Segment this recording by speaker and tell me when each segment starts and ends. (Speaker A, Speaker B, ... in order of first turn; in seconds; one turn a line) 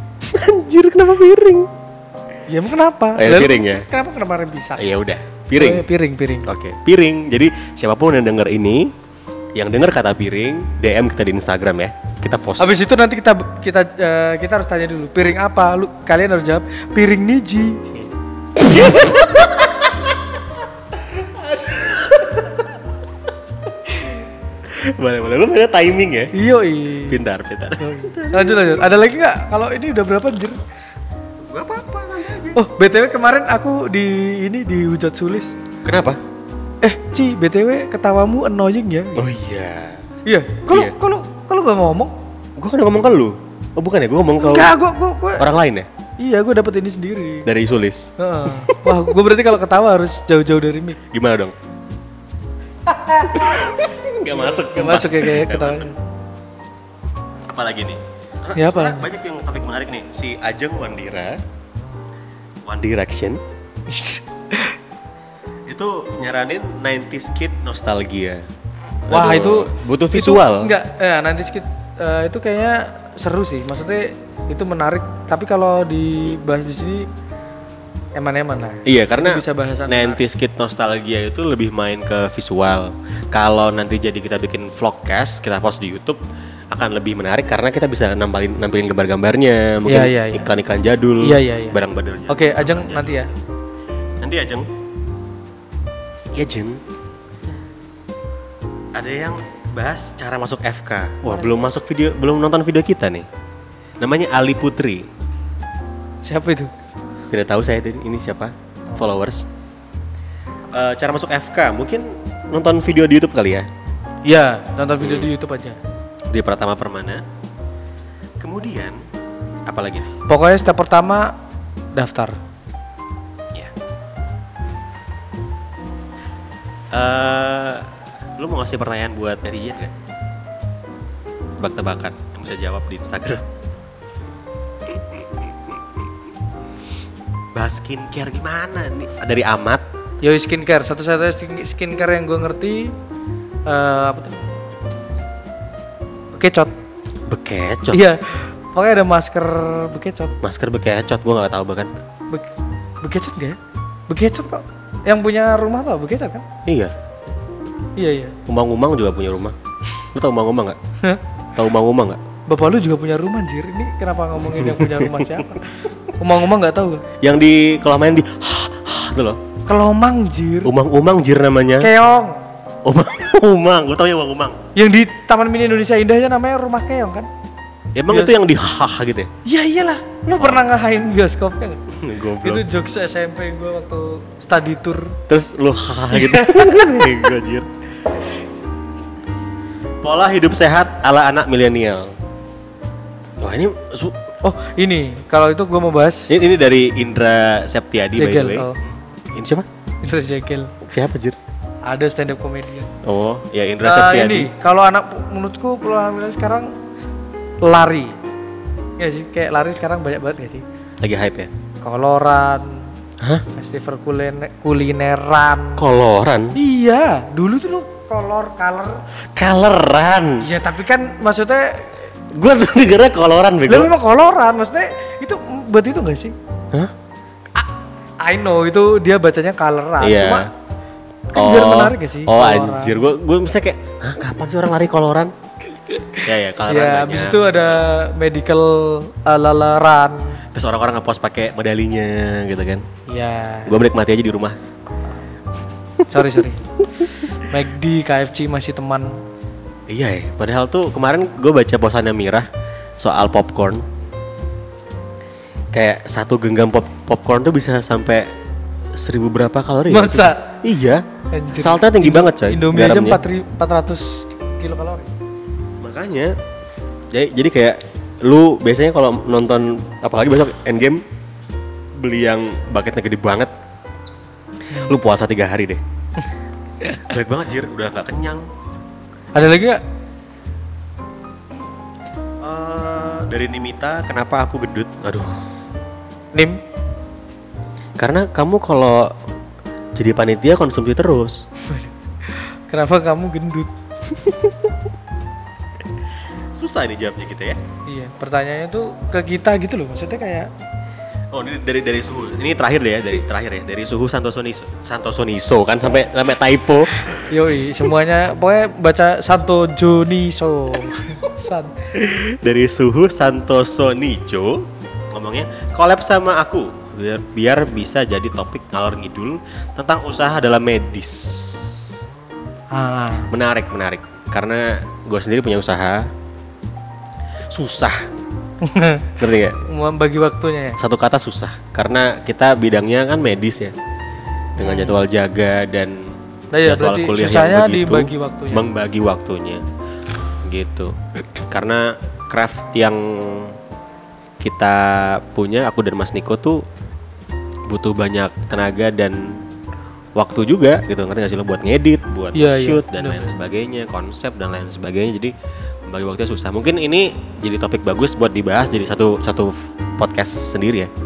Speaker A: 0.3-1.7
Speaker B: 2.5-4.9
Speaker A: 3.2-3.9
Speaker A: 4.8-5.9
Speaker B: 5.6-6.5
Speaker A: 6.5-8.9
Speaker A: 9.6-12.8
Speaker B: 12.6-18.0
Speaker A: 18.6-20.4
Speaker B: 18.6-19.2
Speaker A: 20.9-22.8
Speaker A: 24.6-26.3
Speaker B: 26.3-27.2
Speaker A: 27.1-28.8
Speaker B: 27.8-30.6
Speaker A: 31.5-32.6
Speaker B: 32.5-35.5
Speaker A: 35.8-36.2
Speaker B: 36.8-39.3
Speaker A: 39.2-40.0
Speaker B: 40.3-42.1
Speaker A: 40.7-41.0
Speaker A: 42.6-44.8
Speaker B: 44.4-45.5
Speaker A: 45.4-45.9
Speaker B: 46.2-47.5
Speaker A: 47.5-49.1
Speaker B: 48.2-51.0
Speaker A: 51.1-51.5
Speaker B: 52.9-55.9
Speaker A: 53.3-55.9
Speaker A: 57.5-61.4
Speaker B: 58.5-59.0
Speaker A: 62.7-63.4
Speaker B: 63.9-64.8
Speaker A: 65.7-68.4
Speaker A: 69.1-70.7
Speaker B: 69.1-77.1
Speaker B: 78.2-80.2
Speaker A: 78.9-86.2
Speaker A: 86.7-93.2
Speaker B: 89.9-90.5
Speaker B: 91.2-93.3
Speaker A: 94.2-94.7
Speaker A: 96.3-96.8
Speaker A: 99.0-103.3
Speaker A: 104.0-105.1
Speaker B: 106.2-106.7
Speaker A: 107.3-109.5
Speaker A: 110.7-113.7
Speaker B: 114.3-115.8
Speaker A: 115.0-115.3
Speaker A: 116.3-117.2
Speaker A: 118.4-119.0
Speaker A: 119.7-120.1
Speaker B: 120.3-121.3
Speaker B: 122.0-122.4
Speaker A: 126.9-129.9
Speaker A: 131.6-133.4
Speaker A: 134.9-135.8
Speaker A: 137.6-139.8
Speaker B: 140.2-142.9
Speaker B: 143.7-144.5
Speaker B: 146.3-146.7
Speaker A: 147.3-148.0
Speaker B: 147.9-150.3
Speaker A: 150.4-151.9
Speaker B: 153.0-153.6
Speaker B: 154.1-156.4
Speaker A: 156.7-156.9
Speaker B: 158.0-158.4
Speaker A: 158.5-160.8
Speaker A: 161.6-162.2
Speaker B: 162.5-167.0
Speaker A: 164.6-165.5
Speaker A: 167.2-169.4
Speaker B: 169.7-170.7
Speaker A: 170.6-171.9
Speaker B: 171.8-172.4
Speaker A: 172.8-174.6
Speaker B: 174.8-177.3
Speaker A: 178.0-179.3
Speaker B: 178.1-178.4
Speaker B: 179.4-181.8
Speaker A: 180.3-180.6
Speaker A: 181.9-182.7
Speaker B: 182.4-185.2
Speaker A: 185.3-187.7
Speaker B: 186.1-187.3
Speaker A: 190.0-192.1
Speaker A: 193.4-194.2
Speaker B: 194.4-196.4
Speaker A: 196.3-198.7
Speaker B: 198.2-198.8
Speaker A: 199.3-199.7
Speaker B: 200.0-200.8
Speaker A: 200.8-201.4
Speaker B: 201.9-202.9
Speaker A: 203.0-204.5
Speaker B: 203.8-206.7
Speaker B: 207.6-208.2
Speaker B: 209.0-210.6
Speaker A: 211.0-211.5
Speaker B: 211.8-212.9
Speaker B: 213.5-215.8
Speaker A: 215.8-216.6
Speaker B: 216.5-219.0
Speaker A: 219.3-220.5
Speaker B: 220.4-221.9
Speaker A: 222.3-223.9
Speaker B: 223.7-226.4
Speaker B: 228.2-230.5
Speaker A: 230.0-230.5
Speaker B: 231.3-233.0
Speaker A: 231.3-235.3
Speaker B: 235.9-240.4
Speaker A: 236.2-237.4
Speaker A: 240.5-242.9
Speaker B: 243.1-243.8
Speaker A: 243.7-244.6
Speaker B: 246.1-246.7
Speaker B: 247.3-249.2
Speaker A: 249.9-252.5
Speaker A: 253.0-253.8
Speaker A: 255.7-258.3
Speaker A: 259.0-263.2
Speaker B: 259.9-260.4
Speaker B: 261.3-265.1
Speaker A: 265.8-266.4
Speaker A: 267.1-271.0
Speaker A: 272.0-273.5
Speaker B: 274.7-275.0
Speaker A: 274.8-275.8
Speaker B: 276.8-277.1
Speaker A: 277.1-278.4
Speaker B: 279.4-279.8
Speaker A: 282.4-285.4
Speaker B: 286.3-286.6
Speaker A: 288.0-289.1
Speaker A: 290.0-291.4
Speaker B: 291.7-293.7
Speaker A: 296.5-297.6
Speaker B: 297.9-300.5
Speaker A: 301.3-307.3
Speaker B: 307.0-311.8
Speaker A: 311.9-321.8
Speaker B: 322.7-323.3
Speaker A: 323.3-326.1
Speaker A: 327.5-328.0
Speaker B: 328.6-330.8
Speaker A: 329.2-329.6
Speaker A: 330.8-333.7
Speaker B: 334.6-335.0
Speaker A: 334.6-339.6
Speaker B: 336.5-338.7
Speaker A: 340.4-343.6
Speaker A: 344.4-346.6
Speaker A: 347.7-349.4
Speaker A: 350.2-355.3
Speaker B: 352.3-353.3
Speaker A: 355.9-360.9